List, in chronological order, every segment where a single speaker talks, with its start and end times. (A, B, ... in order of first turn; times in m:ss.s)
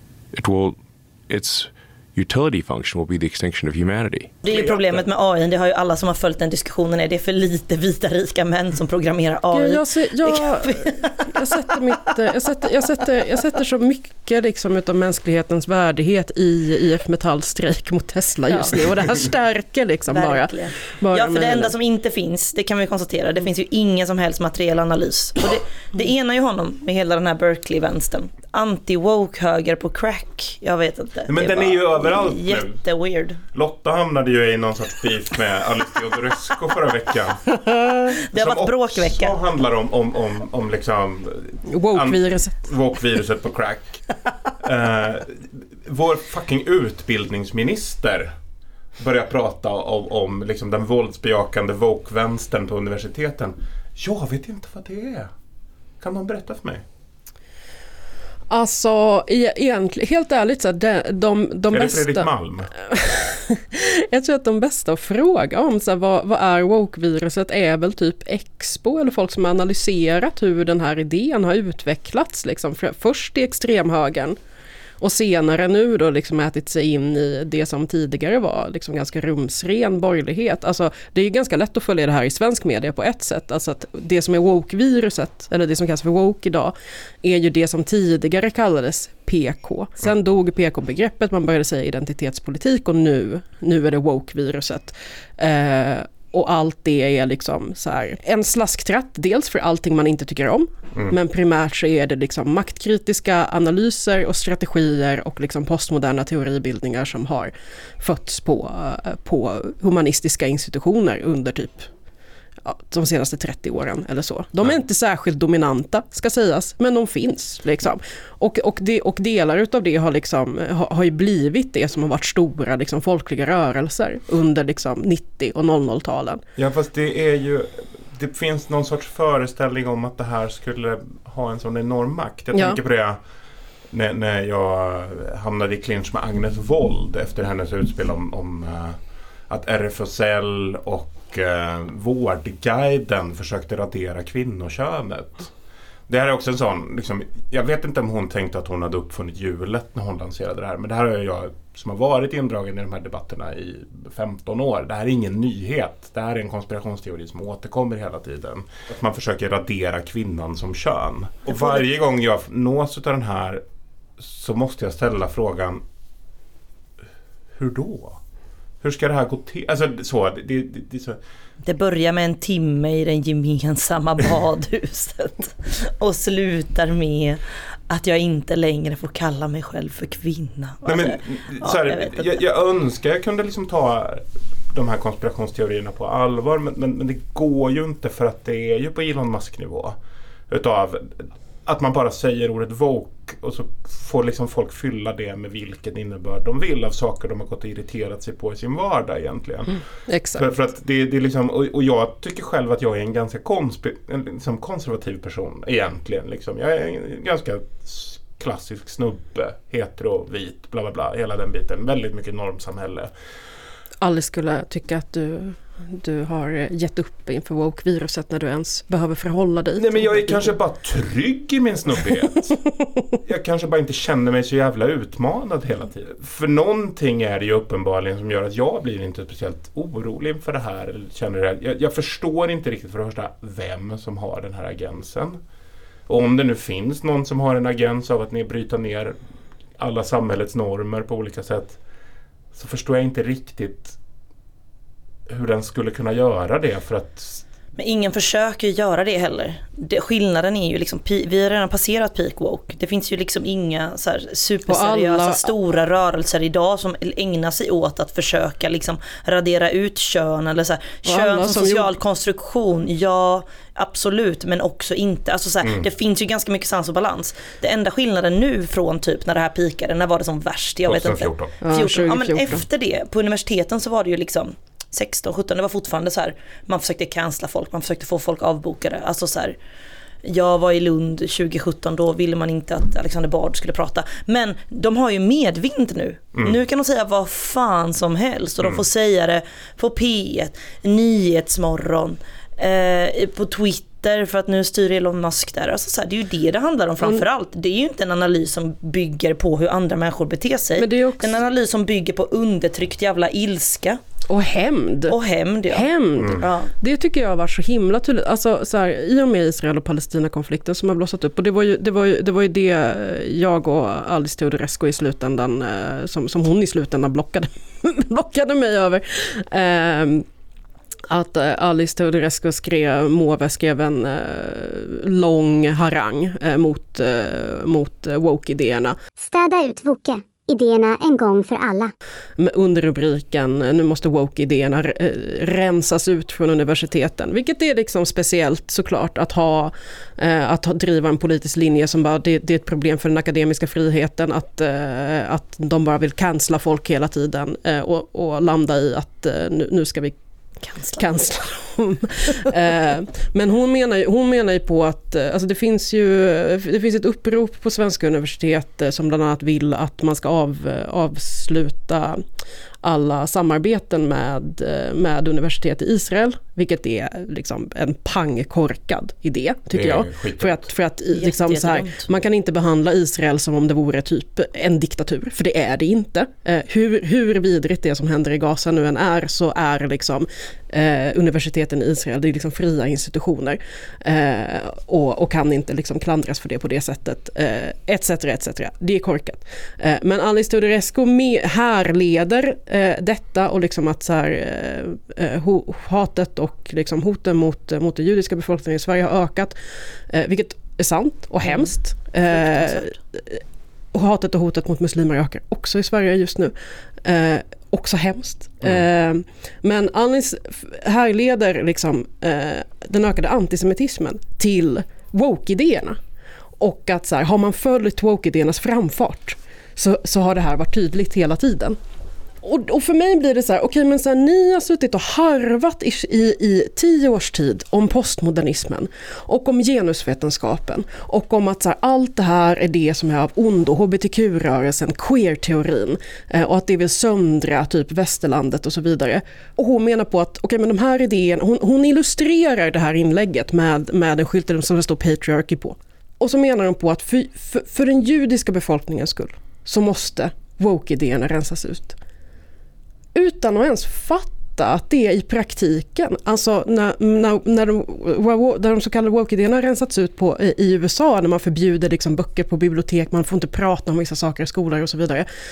0:00.3-0:04.3 A
0:04.4-0:11.6 B
0:04.4-0:05.0 C
0:09.5-0:21.7 D
0:18.5-0:18.8 B
0:20.1-0:33.4 B
0:31.3-0:32.8 C
0:33.5-0:37.4 C
0:38.3-0:39.4 B
0:38.3-0:44.0 C
0:41.7-0:42.7 D
0:44.6-0:48.3 C
0:49.0-0:55.3 C
0:56.0-0:56.8 C
0:58.5-1:02.3 D
1:01.7-1:02.7 C
1:02.9-1:14.4 D
1:15.0-1:51.9 D
1:52.6-2:06.4 D
2:06.6-2:13.2 C
2:13.9-2:19.0 C
2:19.5-2:25.5 C
2:26.1-2:43.6 C
2:41.5-2:41.8 B
2:44.2-2:45.8 C
2:47.5-2:48.2 C
2:48.8-2:51.2 C
2:51.6-3:02.4 B
3:00.8-3:10.0 C
3:10.5-3:19.8 C
3:20.1-3:20.4 D
3:20.3-3:33.1 C
3:34.0-3:40.5 D
3:39.8-3:42.6 C
3:43.2-3:55.4 C
3:56.1-3:59.2 C
3:59.8-4:01.8 C
4:02.5-4:04.0 C
4:05.3-4:07.4 C
4:07.8-4:39.6 B
4:14.7-4:15.5 D
4:21.1-4:21.9 D
4:30.8-4:31.6 C
4:31.6-4:32.6 D
4:40.2-5:04.0 B
5:00.8-5:01.4 D
5:04.3-5:05.2 D
5:05.1-5:06.7 B
5:05.7-5:20.2 D
5:06.2-5:06.4 C
5:21.1-5:29.0 D
5:29.2-5:31.9 E
5:32.4-5:50.2 D
5:50.6-5:51.2 B
5:51.0-6:02.2 D
6:02.8-6:39.6 D
6:09.7-6:10.7 C
6:11.1-6:12.1 B
6:40.1-6:43.4 D
6:41.4-6:41.7 B
6:42.2-6:42.9 B
6:43.9-6:56.0 D
6:56.6-7:01.8 D
7:02.4-7:32.0 D
7:33.1-7:45.3 D